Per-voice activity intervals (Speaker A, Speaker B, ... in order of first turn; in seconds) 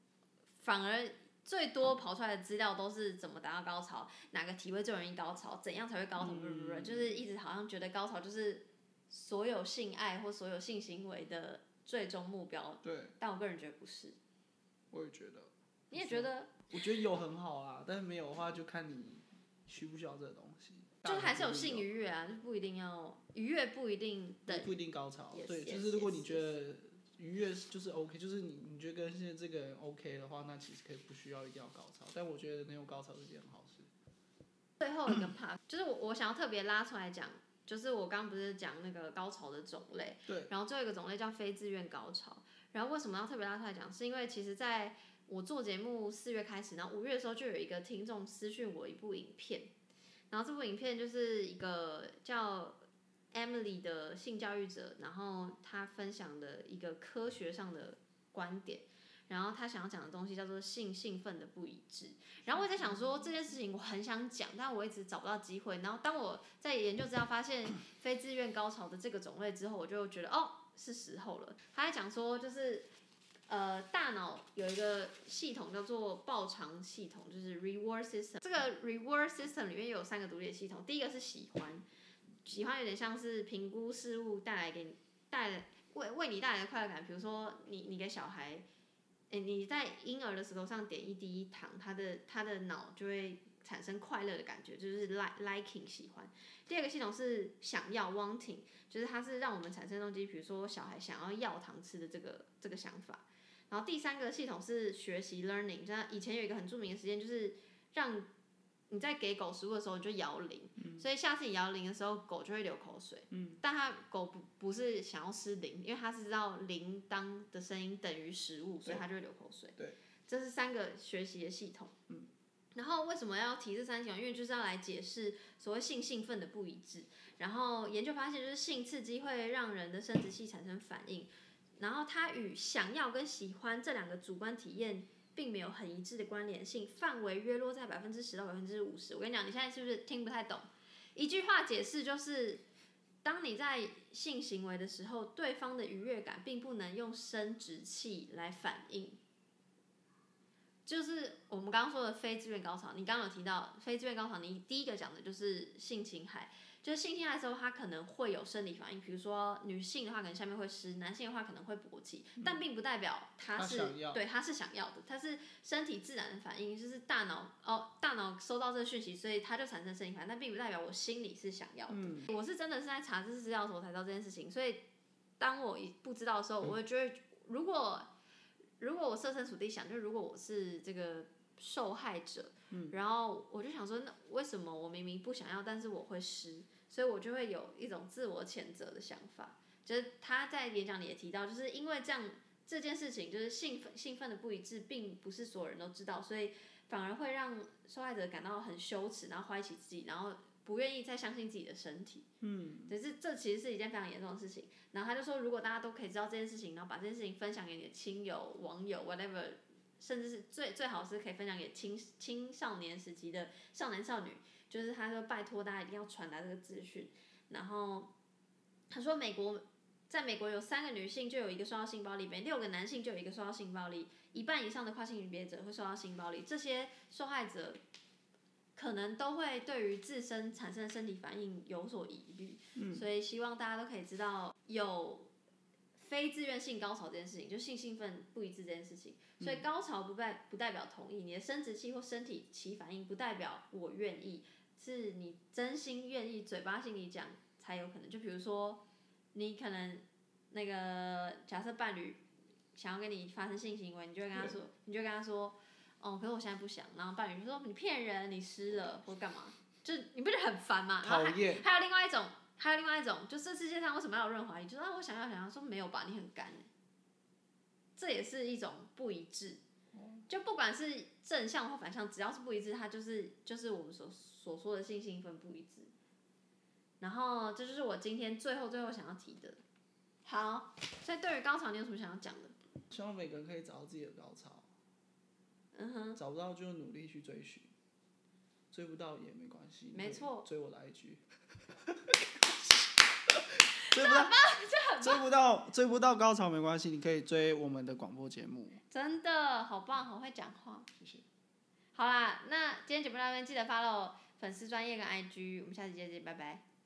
Speaker A: 0.6-14.2, 15.9-16.6, 21.1-24.7, 25.3-26.5, 34.8-49.7, 50.3-72.9, 73.5-81.8, 82.5-88.6, 89.3-108.3, 108.9-119.8, 120.3-122.0, 122.8-142.6, 143.2-149.2, 150.9-174.8, 175.4-178.1, 178.8-202.3, 202.9-218.1, 218.9-227.8, 228.8-235.3, 236.0-248.8, 249.3-252.2, 252.8-266.7, 268.0-269.6, 270.3-275.9, 277.0-279.6, 280.2-282.6, 285.8-286.2, 289.9-290.5, 293.8-295.2, 298.9-300.9, 301.9-306.6
Speaker B: 6.2-7.2, 12.8-13.1, 14.9-21.9, 24.5-33.9, 62.6-63.0, 110.8-111.0, 113.3-113.6, 163.6-164.2, 171.9-172.3, 202.4-202.9, 232.8-233.1, 239.4-239.6, 261.0-261.6, 269.9-270.2, 282.9-284.7, 286.2-287.7, 288.7-294.4, 295.0-298.8, 301.0-301.2